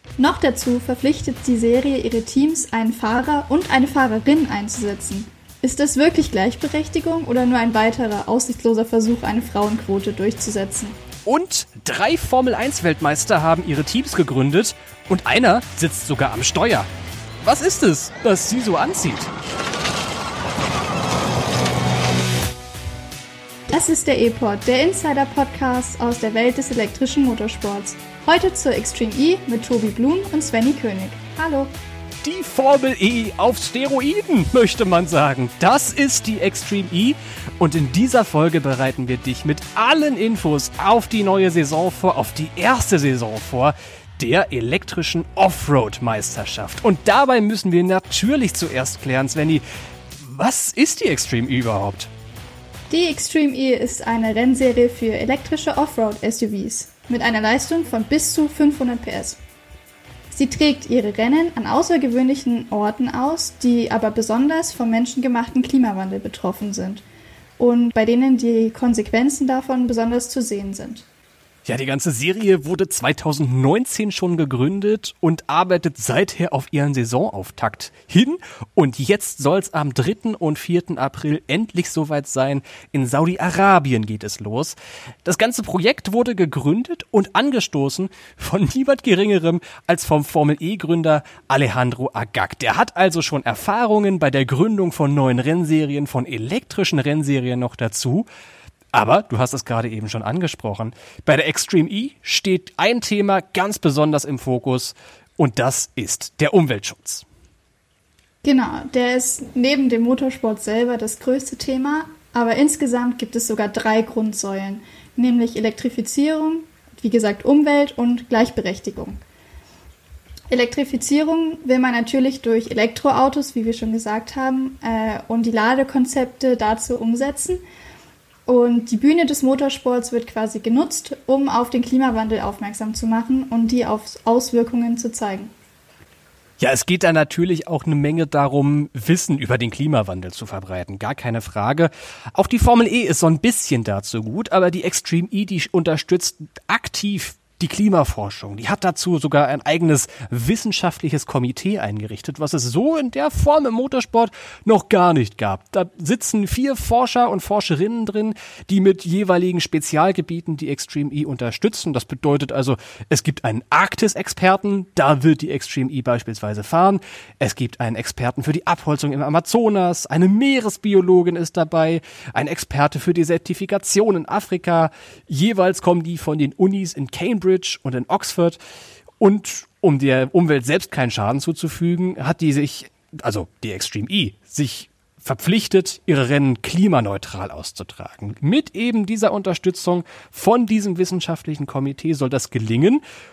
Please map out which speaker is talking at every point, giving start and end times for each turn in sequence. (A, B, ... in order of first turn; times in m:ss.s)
0:00.2-0:11.0 A
0:11.3-0:16.9 B
0:17.4-0:19.3 B
0:23.7-0:31.7 A
0:32.2-0:49.6 B
0:50.2-0:52.1 B
0:52.9-0:59.4 A
1:00.3-1:07.0 A
1:07.6-1:11.0 A
1:11.6-1:38.3 B
1:38.9-1:47.2 B
1:48.4-1:59.2 A
2:00.5-2:07.6 A
2:08.5-2:15.5 A
2:16.6-2:58.6 B
2:59.2-3:13.0 B